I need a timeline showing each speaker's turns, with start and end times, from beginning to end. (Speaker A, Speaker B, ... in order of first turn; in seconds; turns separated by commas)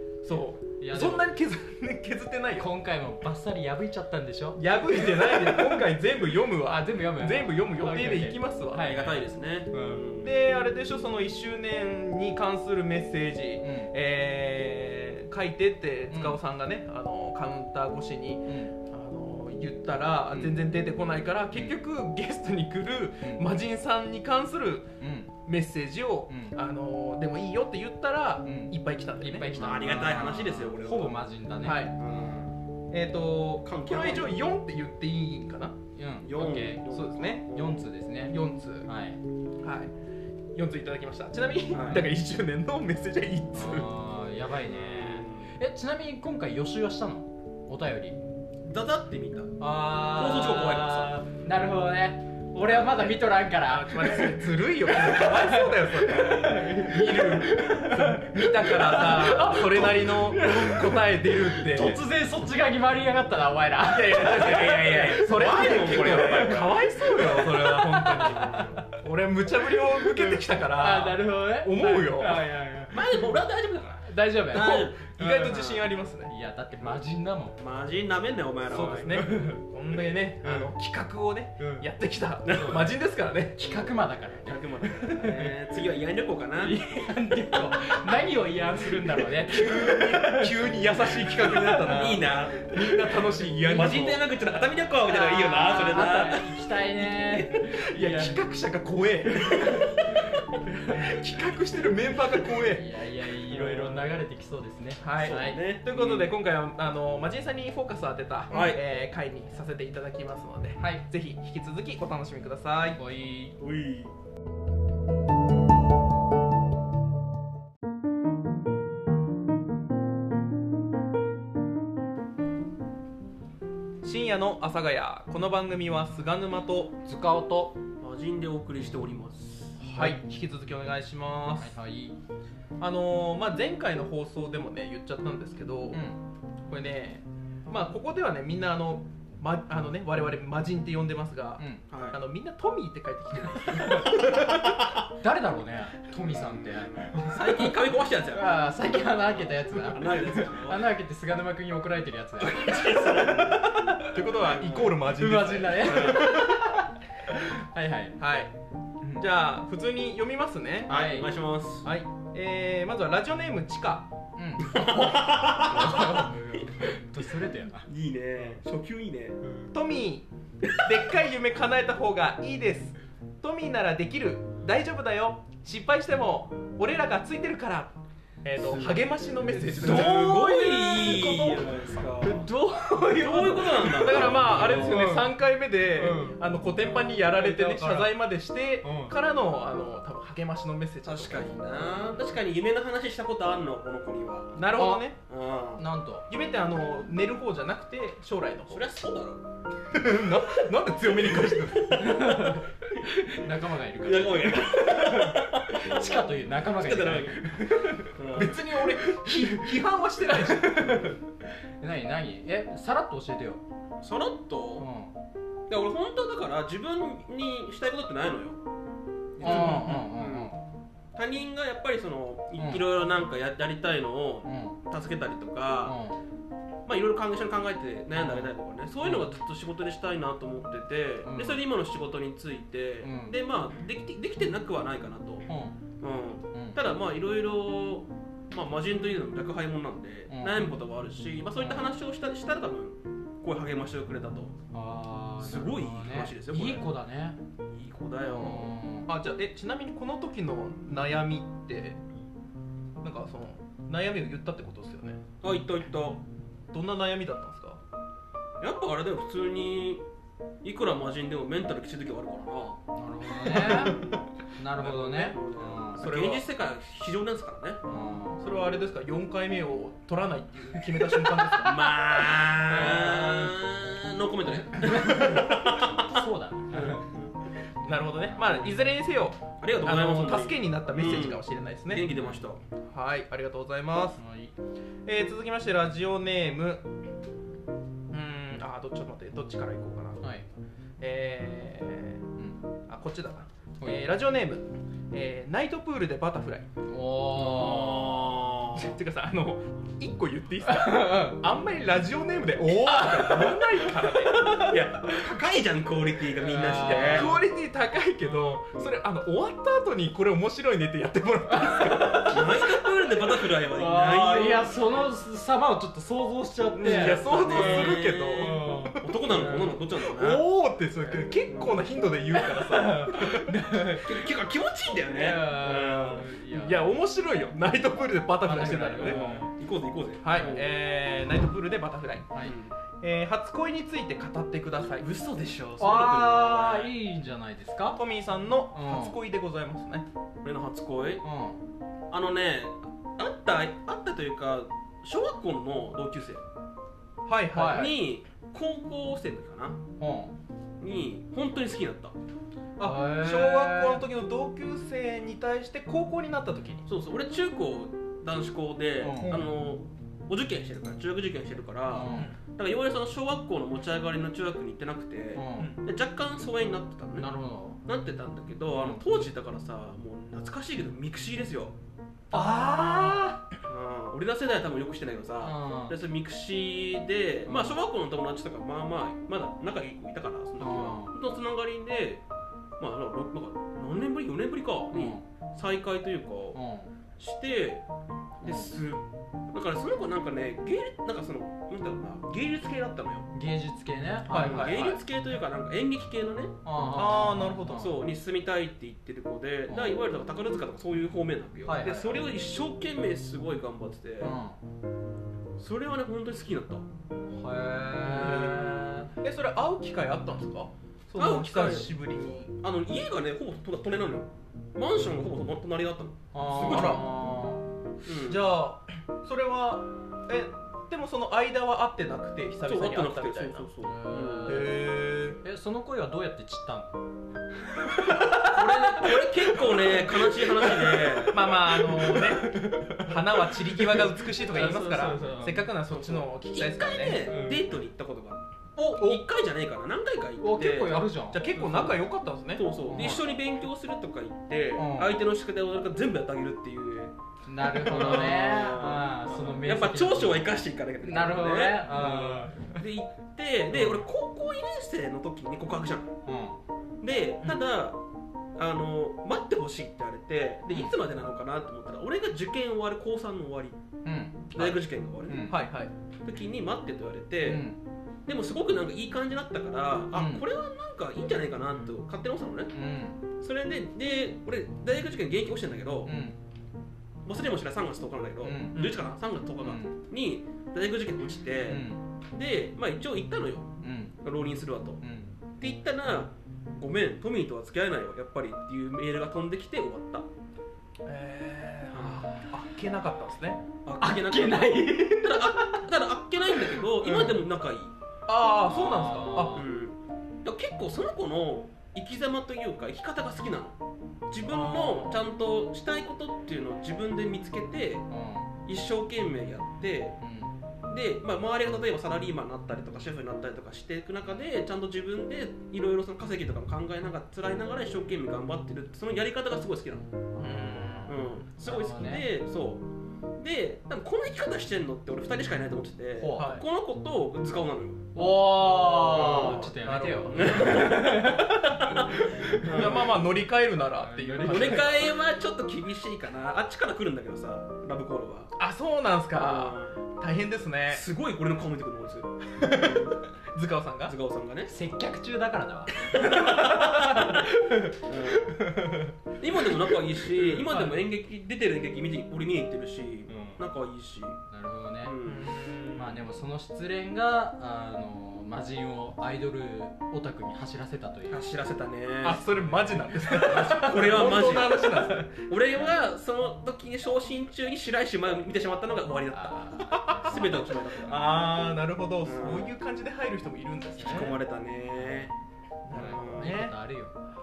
Speaker A: 0.2-2.7, Speaker B: 0.8-1.3, Speaker B: 2.5-5.8, Speaker A: 4.6-8.9, Speaker B: 6.6-10.0, Speaker C: 8.8-10.3, Speaker A: 10.2-24.9, Speaker B: 13.6-13.9, Speaker B: 16.1-16.4, Speaker B: 18.5-18.7, Speaker B: 20.3-20.6, Speaker B: 25.0-25.3, Speaker A: 25.4-29.5, Speaker B: 26.3-26.6, Speaker B: 28.4-32.4, Speaker C: 29.5-31.2, Speaker A: 31.6-32.0, Speaker C: 32.0-32.5, Speaker A: 32.9-35.8, Speaker C: 33.6-34.4, Speaker B: 36.0-39.2, Speaker C: 36.2-37.8, Speaker A: 36.9-37.5, Speaker A: 38.3-38.9, Speaker A: 39.6-39.9, Speaker A: 40.5-43.9, Speaker C: 41.7-42.1, Speaker B: 43.5-48.2, Speaker C: 44.7-45.5, Speaker C: 48.6-51.2, Speaker B: 49.6-68.8, Speaker A: 53.6-62.0, Speaker A: 63.8-72.5, Speaker C: 64.2-66.8, Speaker C: 68.2-68.8, Speaker B: 69.9-73.2, Speaker C: 72.9-75.8, Speaker B: 74.0-77.6, Speaker A: 74.5-76.3, Speaker C: 77.6-79.2, Speaker A: 78.7-83.7, Speaker B: 79.1-79.6, Speaker C: 80.4-80.7, Speaker B: 81.6-81.8, Speaker C: 82.4-82.9, Speaker B: 83.6-85.5, Speaker C: 84.4-86.8, Speaker B: 86.6-90.5, Speaker A: 89.5-94.2, Speaker B: 91.4-92.0, Speaker C: 91.6-92.6, Speaker B: 92.7-94.0, Speaker C: 93.7-96.7, Speaker B: 95.0-98.4, Speaker A: 97.5-100.1, Speaker B: 100.3-101.2, Speaker A: 100.9-102.8, Speaker B: 102.6-105.7, Speaker C: 103.5-104.1, Speaker A: 105.0-113.0, Speaker C: 105.2-106.3, Speaker C: 108.5-108.8, Speaker B: 113.0-113.5, Speaker C: 113.6-114.1, Speaker A: 124.0-127.0, Speaker B: 127.0-127.8, Speaker C: 128.0-129.8, Speaker B: 129.8-130.2, Speaker A: 129.9-131.7, Speaker B: 131.6-132.2, Speaker A: 132.8-136.0, Speaker B: 135.9-136.2, Speaker A: 136.7-144.8, Speaker C: 141.9-142.2, Speaker B: 145.1-147.8, Speaker C: 146.2-148.6, Speaker B: 148.3-154.1, Speaker C: 149.4-150.9, Speaker C: 152.4-153.7, Speaker A: 154.0-156.7, Speaker C: 154.5-154.9, Speaker B: 155.0-158.2, Speaker C: 155.8-156.3, Speaker A: 158.2-158.5, Speaker A: 159.2-161.0, Speaker B: 160.9-161.3, Speaker C: 160.9-161.9, Speaker A: 161.8-164.1, Speaker B: 164.4-167.9, Speaker C: 164.6-166.3, Speaker C: 167.9-169.4, Speaker A: 169.7-181.8, Speaker C: 178.6-179.0, Speaker B: 179.5-185.3, Speaker C: 179.7-182.5, Speaker C: 183.1-185.1, Speaker A: 183.8-191.6, Speaker B: 186.0-186.3, Speaker B: 187.3-188.1, Speaker B: 188.8-189.1, Speaker C: 191.0-194.6, Speaker A: 194.5-195.2, Speaker B: 194.8-195.1, Speaker C: 195.3-195.8, Speaker B: 195.8-196.2, Speaker A: 196.3-198.8, Speaker C: 198.7-199.4, Speaker A: 199.9-202.1, Speaker C: 201.3-202.6, Speaker B: 201.9-209.7, Speaker C: 204.0-206.1, Speaker C: 206.8-207.4, Speaker C: 208.1-208.6, Speaker A: 208.3-211.1, Speaker B: 210.3-211.2, Speaker B: 211.8-213.6, Speaker C: 214.0-214.9, Speaker B: 214.8-215.1, Speaker C: 215.7-218.6, Speaker C: 219.4-220.5, Speaker A: 219.4-220.1, Speaker B: 219.4-220.6, Speaker C: 221.1-226.0, Speaker B: 222.6-222.8, Speaker B: 224.4-224.8, Speaker B: 225.8-226.2, Speaker C: 226.8-235.5, Speaker B: 228.1-229.3, Speaker B: 231.2-231.6, Speaker B: 233.0-233.3, Speaker B: 235.4-235.8, Speaker C: 236.0-244.6, Speaker B: 236.5-236.8, Speaker B: 240.3-240.7, Speaker B: 241.6-241.9, Speaker B: 244.7-247.4, Speaker C: 245.4-246.9, Speaker C: 247.7-248.7, Speaker B: 248.2-249.1, Speaker A: 249.1-252.0, Speaker A: 253.0-255.2, Speaker C: 255.4-256.2, Speaker A: 256.7-257.8, Speaker C: 258.6-260.0, Speaker C: 260.6-262.8, Speaker B: 262.9-264.0, Speaker A: 263.5-264.1, Speaker B: 264.6-266.0, Speaker C: 264.8-267.8, Speaker A: 266.0-266.5, Speaker B: 267.9-268.5, Speaker A: 268.4-272.0, Speaker C: 271.6-277.3, Speaker A: 272.7-273.5, Speaker B: 272.7-273.0, Speaker B: 274.9-277.1, Speaker A: 277.8-282.1, Speaker C: 279.6-282.6, Speaker B: 282.1-282.4, Speaker A: 282.9-284.2, Speaker B: 284.2-284.5, Speaker A: 285.0-286.9, Speaker A: 288.1-290.2, Speaker A: 291.0-292.2, Speaker A: 292.9-296.7, Speaker B: 296.9-298.4, Speaker C: 297.4-298.9, Speaker A: 298.7-304.7, Speaker B: 300.6-301.4, Speaker C: 302.8-303.8, Speaker C: 304.3-307.3, Speaker B: 306.4-307.4, Speaker A: 306.9-312.7, Speaker B: 311.5-312.6, Speaker C: 312.2-314.7, Speaker B: 313.7-319.8, Speaker A: 316.7-319.3, Speaker C: 316.8-320.4, Speaker A: 320.0-323.8, Speaker C: 321.5-321.8, Speaker B: 322.4-324.2, Speaker C: 324.0-326.3, Speaker B: 325.1-326.9, Speaker A: 326.5-329.3, Speaker B: 328.4-329.5, Speaker C: 329.0-330.6, Speaker A: 330.2-332.3, Speaker C: 332.4-332.7, Speaker A: 333.0-335.1, Speaker C: 335.0-336.9, Speaker B: 335.8-338.0, Speaker A: 337.9-340.1, Speaker B: 338.7-339.2, Speaker C: 340.4-341.2, Speaker B: 341.2-341.6, Speaker C: 342.1-346.4, Speaker A: 347.2-348.0, Speaker B: 347.5-347.9, Speaker C: 347.7-349.8, Speaker B: 350.0-350.3, Speaker C: 350.8-352.1, Speaker A: 352.8-356.9, Speaker B: 352.8-354.0, Speaker C: 356.9-367.3, Speaker B: 359.0-359.4, Speaker A: 359.2-359.5, Speaker B: 361.9-362.3, Speaker A: 362.0-362.4, Speaker B: 365.3-365.7, Speaker B: 367.1-367.8, Speaker C: 367.8-371.7, Speaker B: 368.7-369.0, Speaker B: 372.3-373.4, Speaker A: 372.3-373.4, Speaker C: 373.7-382.2, Speaker B: 375.4-375.9, Speaker B: 377.4-377.8, Speaker B: 380.6-381.1, Speaker C: 382.8-386.6, Speaker B: 384.9-385.2, Speaker B: 386.5-386.9, Speaker C: 387.2-387.8, Speaker B: 388.4-388.7, Speaker C: 388.4-393.3, Speaker B: 393.3-395.0, Speaker A: 394.3-395.0, Speaker C: 394.3-396.5, Speaker B: 396.6-397.9, Speaker A: 396.9-398.0, Speaker C: 397.8-404.4, Speaker B: 399.7-399.9, Speaker B: 401.6-402.2, Speaker B: 404.2-404.6, Speaker C: 405.6-406.9, Speaker B: 407.3-409.1, Speaker C: 408.1-408.7, Speaker A: 408.1-412.5, Speaker C: 411.1-411.9, Speaker C: 412.6-417.0, Speaker B: 416.3-417.6, Speaker A: 416.6-417.1, Speaker C: 418.0-418.5, Speaker A: 418.1-423.7, Speaker C: 422.6-424.7, Speaker B: 423.8-424.8, Speaker A: 424.4-425.4, Speaker B: 425.4-426.9, Speaker B: 427.8-429.8, Speaker C: 428.3-431.5, Speaker B: 430.7-435.7, Speaker A: 431.3-437.3, Speaker C: 435.9-442.0, Speaker B: 437.2-437.6, Speaker B: 440.4-441.6, Speaker A: 441.3-442.8, Speaker C: 442.5-447.1, Speaker B: 442.9-443.2, Speaker B: 444.8-445.2, Speaker B: 447.5-452.7, Speaker C: 447.7-456.1, Speaker B: 453.7-454.0, Speaker B: 456.2-456.6, Speaker C: 457.0-458.0, Speaker C: 458.6-463.8, Speaker B: 464.0-465.6, Speaker C: 464.5-465.5, Speaker A: 465.5-465.9, Speaker C: 466.2-467.7, Speaker B: 467.4-467.8, Speaker C: 468.2-472.7, Speaker B: 470.1-470.4, Speaker B: 472.7-473.2, Speaker C: 473.4-476.1, Speaker B: 476.0-476.4, Speaker C: 477.2-485.0, Speaker B: 478.4-478.9, Speaker B: 479.6-480.0, Speaker B: 481.6-482.0, Speaker B: 483.8-484.1, Speaker B: 485.0-485.3, Speaker C: 485.6-490.3, Speaker A: 491.0-493.6, Speaker C: 491.9-492.3, Speaker C: 493.8-497.9, Speaker B: 494.0-495.8, Speaker A: 497.0-497.4, Speaker A: 498.3-499.6, Speaker B: 498.6-499.6, Speaker C: 499.5-503.8, Speaker C: 504.3-508.1, Speaker A: 504.4-505.2, Speaker B: 508.1-508.5, Speaker C: 508.6-510.2, Speaker B: 510.2-510.5, Speaker C: 510.9-520.1, Speaker A: 520.4-521.1, Speaker B: 520.4-522.3, Speaker C: 521.1-522.8, Speaker C: 523.4-528.0, Speaker B: 526.2-526.5, Speaker A: 526.4-526.6, Speaker B: 528.1-532.9, Speaker C: 528.9-529.7, Speaker A: 529.0-531.6, Speaker C: 530.3-533.2, Speaker A: 532.6-535.1, Speaker B: 534.0-535.0, Speaker C: 534.4-538.5, Speaker A: 538.6-541.1, Speaker C: 539.3-540.0, Speaker C: 540.9-543.2, Speaker A: 542.5-544.1, Speaker C: 544.1-544.7, Speaker B: 544.7-548.0, Speaker C: 546.1-548.7, Speaker A: 546.3-546.9, Speaker B: 548.5-549.1, Speaker C: 549.4-554.4, Speaker A: 550.4-550.9, Speaker B: 550.7-550.9, Speaker B: 553.3-553.6, Speaker B: 554.5-555.1, Speaker C: 555.0-555.5, Speaker A: 555.2-556.3, Speaker B: 556.0-561.5, Speaker C: 561.3-562.4, Speaker A: 562.2-565.3, Speaker C: 563.4-571.3, Speaker B: 569.3-570.6, Speaker A: 570.1-574.4, Speaker C: 572.2-572.7, Speaker C: 574.0-575.3, Speaker B: 574.0-574.3, Speaker A: 575.9-576.7, Speaker C: 575.9-576.6, Speaker B: 575.9-577.1